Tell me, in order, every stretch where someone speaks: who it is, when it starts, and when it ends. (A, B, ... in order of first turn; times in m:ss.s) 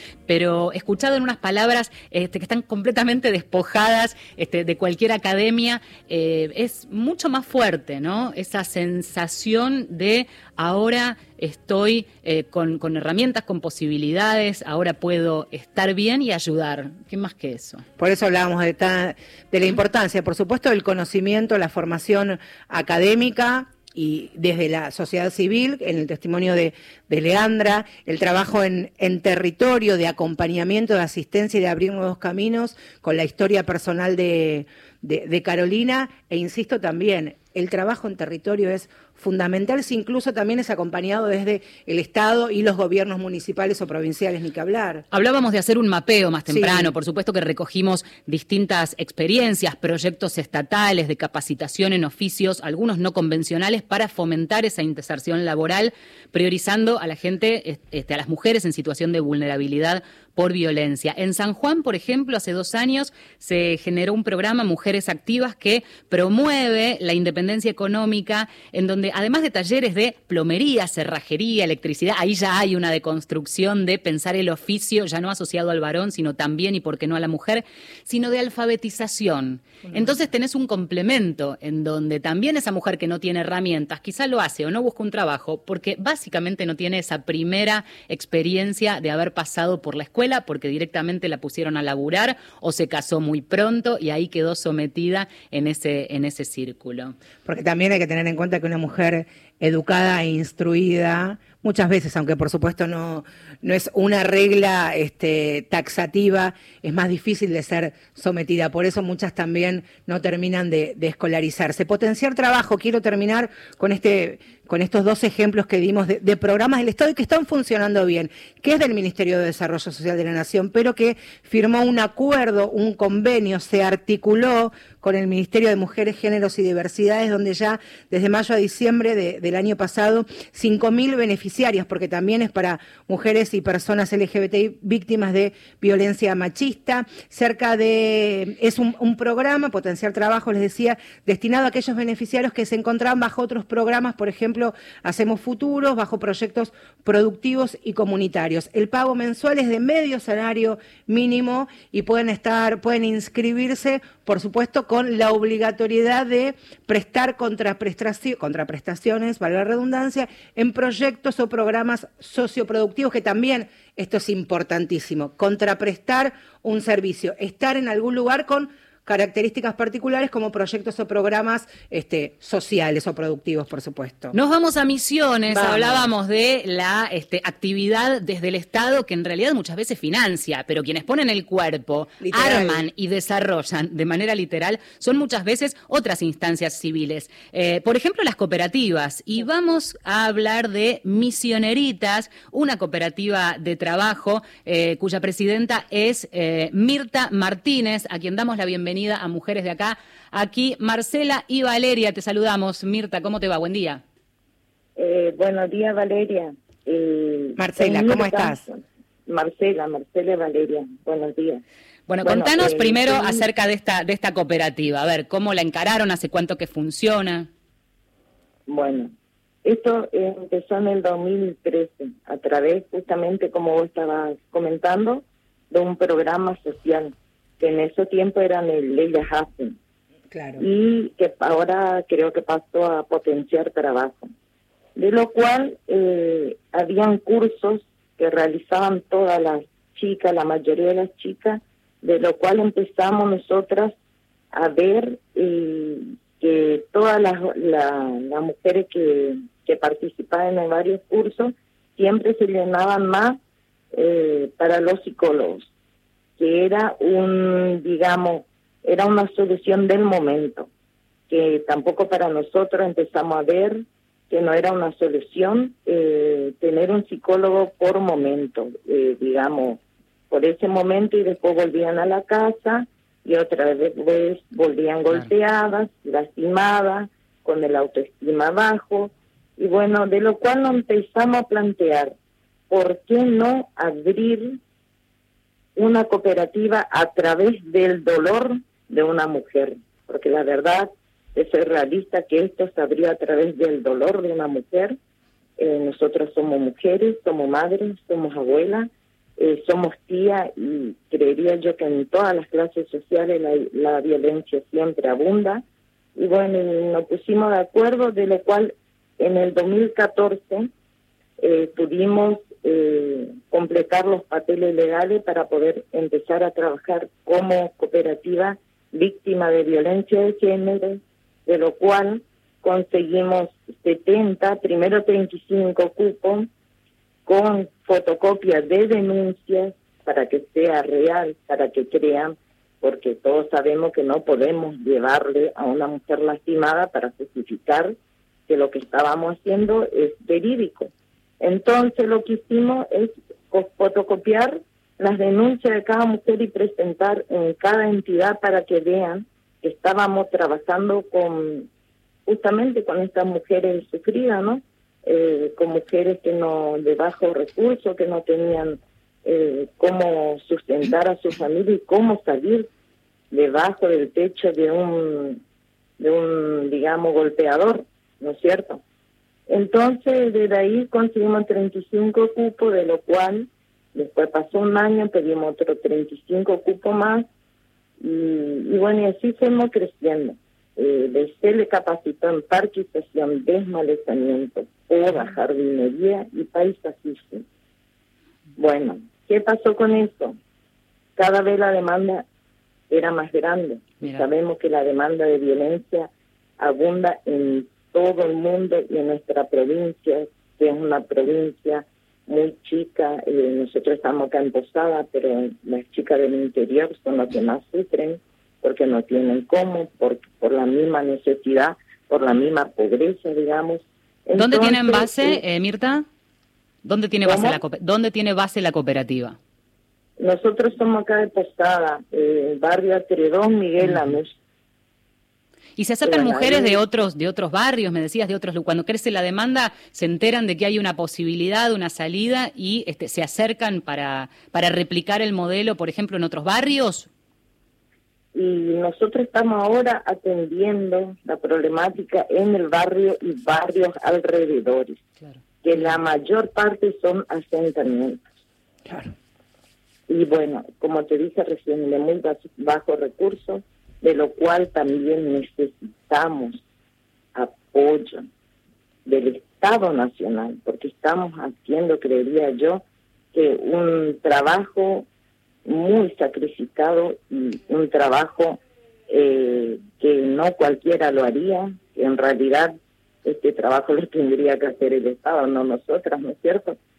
0:00.3-0:17.8 A
0:18.0-0:45.0 B
0:45.1-1:37.1 A
0:46.5-0:46.9 B
1:37.5-2:54.4 B
2:54.3-3:24.0 A
2:55.5-2:56.1 B
3:02.2-3:02.9 B
3:25.0-3:31.6 C
3:27.6-3:28.6 B
3:32.1-3:37.5 A
3:32.2-3:33.5 C
3:38.7-3:39.1 C
3:39.6-3:49.8 C
3:50.3-3:50.7 B
3:50.6-3:54.3 C
3:55.0-4:03.9 C
4:04.5-4:13.4 C
4:13.9-4:15.7 C
4:16.4-4:20.7 C
4:21.3-4:42.1 C
4:42.7-4:44.6 C
4:45.8-4:55.0 C
4:55.6-5:05.6 C
5:06.2-5:10.7 C
5:11.4-5:26.5 C
5:27.3-5:38.0 C
5:38.5-5:51.7 C
5:52.3-6:02.7 C
6:03.3-6:05.4 C
6:06.0-6:08.8 C
6:09.5-6:17.3 C
6:18.0-6:27.4 C
6:28.6-6:30.4 C
6:31.2-6:32.3 C
6:32.9-6:55.4 C
6:54.4-6:56.1 A
6:56.8-6:59.4 A
6:57.2-6:57.6 C
7:00.2-7:04.4 C
7:05.8-7:17.1 A
7:06.0-7:06.8 C
7:18.4-7:25.0 C
7:25.2-7:25.9 A
7:25.6-7:28.2 C
7:30.1-7:36.6 C
7:37.4-7:38.3 C
7:39.1-7:45.1 C
7:45.7-7:56.8 C